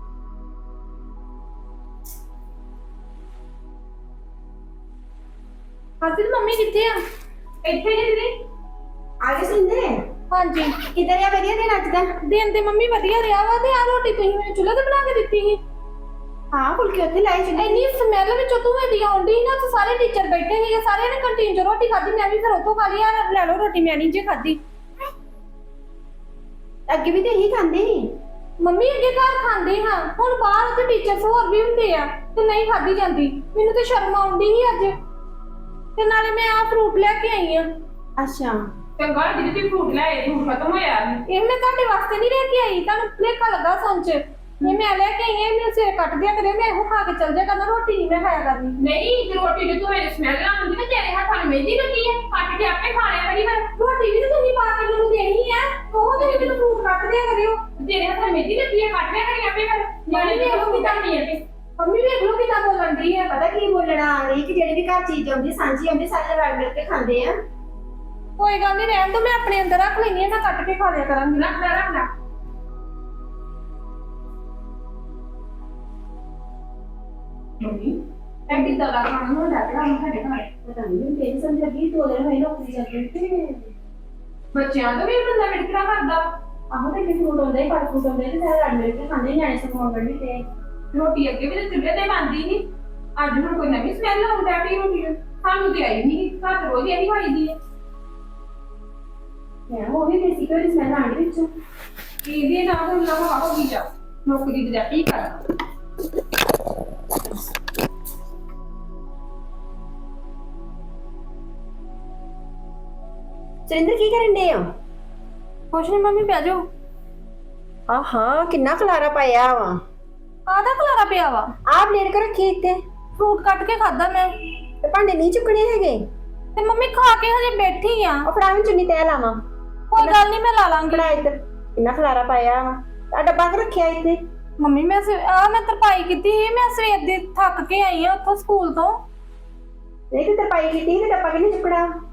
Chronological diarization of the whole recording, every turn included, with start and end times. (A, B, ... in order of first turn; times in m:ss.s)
0:06.0-0:07.0 A
0:07.6-0:08.3 B
0:09.2-0:09.9 C
0:10.3-0:10.8 A
0:10.9-0:12.1 C
0:12.2-0:15.6 A
0:16.5-0:17.9 C
0:17.6-0:24.6 A
0:26.9-0:28.1 C
0:28.6-0:34.9 A
0:36.0-0:37.7 A
0:38.2-0:38.6 C
0:39.0-0:41.2 B
0:41.3-0:48.8 A
0:48.8-0:53.7 B
0:53.7-0:57.6 A
0:56.1-0:56.6 B
0:57.8-1:01.4 B
1:00.1-1:01.0 A
1:01.8-1:03.2 A
1:03.3-1:07.3 C
1:08.4-1:11.5 A
1:11.3-1:12.1 B
1:17.6-1:20.5 B
1:20.6-1:23.7 C
1:24.5-1:26.4 B
1:26.7-1:30.4 C
1:30.9-1:37.6 B
1:39.7-1:41.5 C
1:42.2-1:45.5 B
1:53.7-1:54.6 C
1:55.7-1:56.6 A
1:57.9-1:59.8 C
2:00.5-2:01.5 A
2:01.7-2:02.8 C
2:03.2-2:04.3 A
2:04.8-2:06.0 C
2:06.6-2:08.3 A
2:08.2-2:09.4 C
2:09.9-2:11.2 A
2:10.0-2:10.2 C
2:10.9-2:14.2 C
2:14.6-2:19.0 A
2:20.1-2:21.9 C